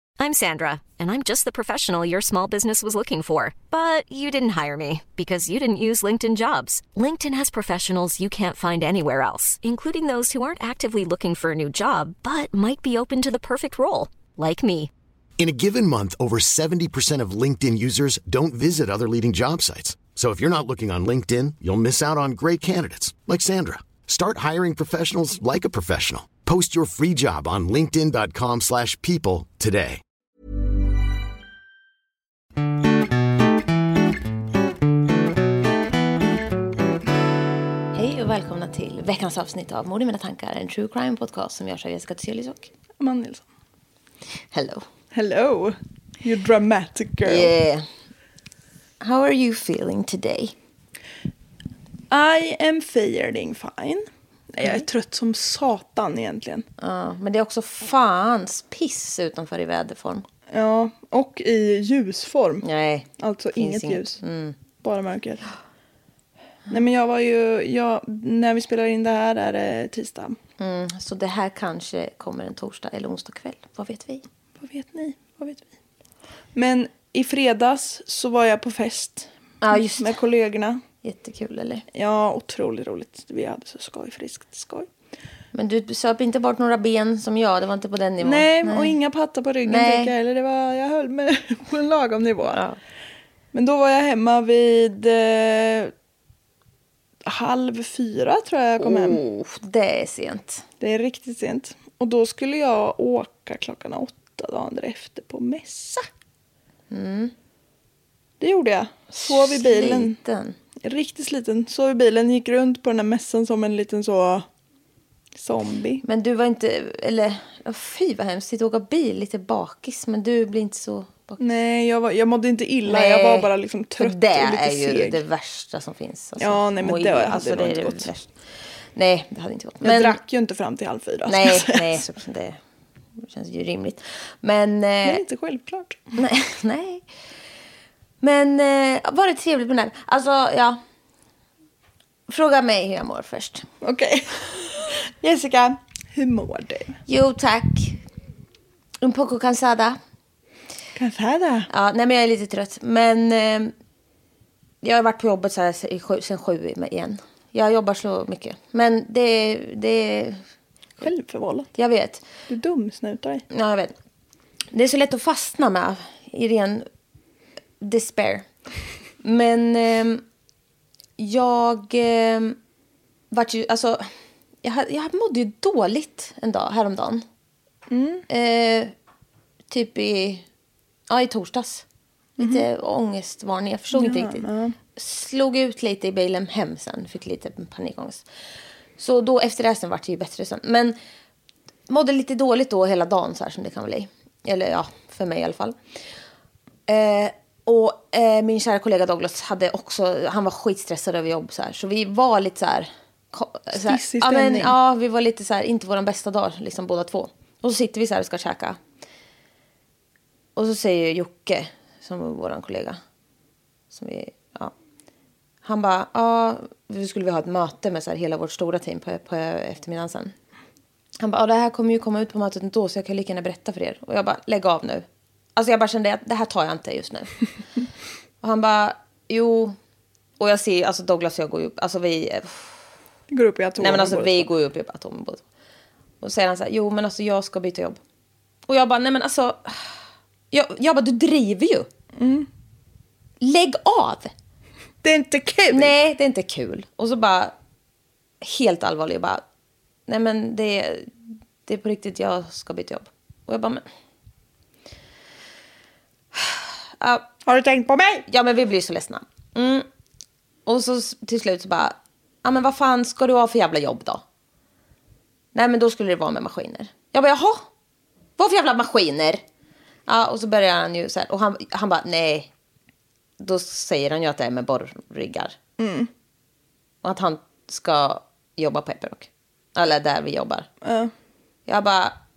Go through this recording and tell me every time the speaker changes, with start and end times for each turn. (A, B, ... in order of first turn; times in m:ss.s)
0:00.2-0:14.9 A
0:15.4-0:30.0 B
0:37.9-0:42.7 C
0:43.0-0:43.4 D
0:44.5-0:44.8 C
0:45.1-0:47.5 D
0:47.2-0:47.8 C
0:49.0-0:50.5 C
0:52.1-0:56.6 D
0:56.8-1:00.2 C
1:00.5-1:02.6 D
1:02.6-1:04.6 C
1:03.2-1:04.2 D
1:04.8-1:05.4 D
1:06.7-1:10.4 D
1:10.6-1:14.2 C
1:14.6-1:15.6 D
1:16.5-1:20.8 D
1:19.6-1:20.1 C
1:21.0-1:21.8 C
1:21.9-1:24.9 D
1:25.5-1:29.0 C
1:28.2-1:32.6 D
1:29.6-1:30.1 C
1:33.5-1:35.9 D
1:37.2-1:39.2 D
1:38.8-1:40.6 C
1:40.8-1:46.0 D
1:46.9-1:47.3 C
1:48.4-1:50.2 D
1:49.1-1:50.6 C
1:50.8-1:54.4 D
1:55.4-1:56.0 D
1:56.0-2:01.4 C
2:01.4-2:05.2 D
2:02.8-2:08.3 C
2:06.4-2:08.1 D
2:09.0-2:10.2 C
2:09.8-2:12.0 D
2:11.3-2:12.6 C
2:13.2-2:15.2 C
2:15.0-2:16.0 D
2:16.2-2:17.0 C
2:18.2-2:20.8 C
2:22.3-2:23.6 C
2:23.8-2:27.0 D
2:27.1-2:28.0 C
2:29.0-2:30.0 C
2:31.0-2:31.7 D
2:31.7-2:33.7 C
2:34.8-2:40.4 C
2:41.0-2:41.7 D
2:41.7-2:42.2 C
2:42.5-2:43.4 D
2:43.5-2:43.9 C
2:44.7-2:46.9 C
2:47.8-2:48.5 C
2:49.2-2:50.2 C
2:51.2-2:52.6 C
2:53.3-2:54.1 C
2:54.6-2:57.2 C
2:57.9-2:58.2 D
2:58.3-2:58.9 C
2:59.7-3:00.4 C
3:01.1-3:01.8 C
3:02.4-3:02.6 D
3:02.4-3:08.2 C
3:03.9-3:04.8 D
3:09.0-3:11.0 C
3:11.9-3:15.8 C
3:16.9-3:28.8 C
3:23.7-3:24.7 D
3:30.6-3:33.0 C
3:33.9-3:34.7 C
3:35.6-3:40.3 C
3:41.2-3:45.0 C
3:45.6-3:47.3 C
3:48.4-3:49.8 C
3:50.4-3:52.8 C
3:53.3-3:54.5 D
3:53.8-3:55.4 C
3:56.2-3:58.0 C
3:58.7-4:00.0 C
4:00.5-4:01.9 C
4:02.2-4:02.5 D
4:03.4-4:04.3 C
4:05.0-4:05.9 D
4:05.7-4:07.5 C
4:08.4-4:09.4 C
4:10.1-4:11.1 C
4:11.6-4:13.8 C
4:16.3-4:17.3 C
4:17.4-4:18.2 D
4:18.3-4:19.8 C
4:20.6-4:24.2 C
4:25.5-4:27.6 C
4:28.4-4:29.4 C
4:30.1-4:32.5 C
4:33.4-4:35.5 C
4:35.8-4:36.1 D
4:37.0-4:40.7 C
4:40.8-4:41.1 D
4:41.7-4:42.1 C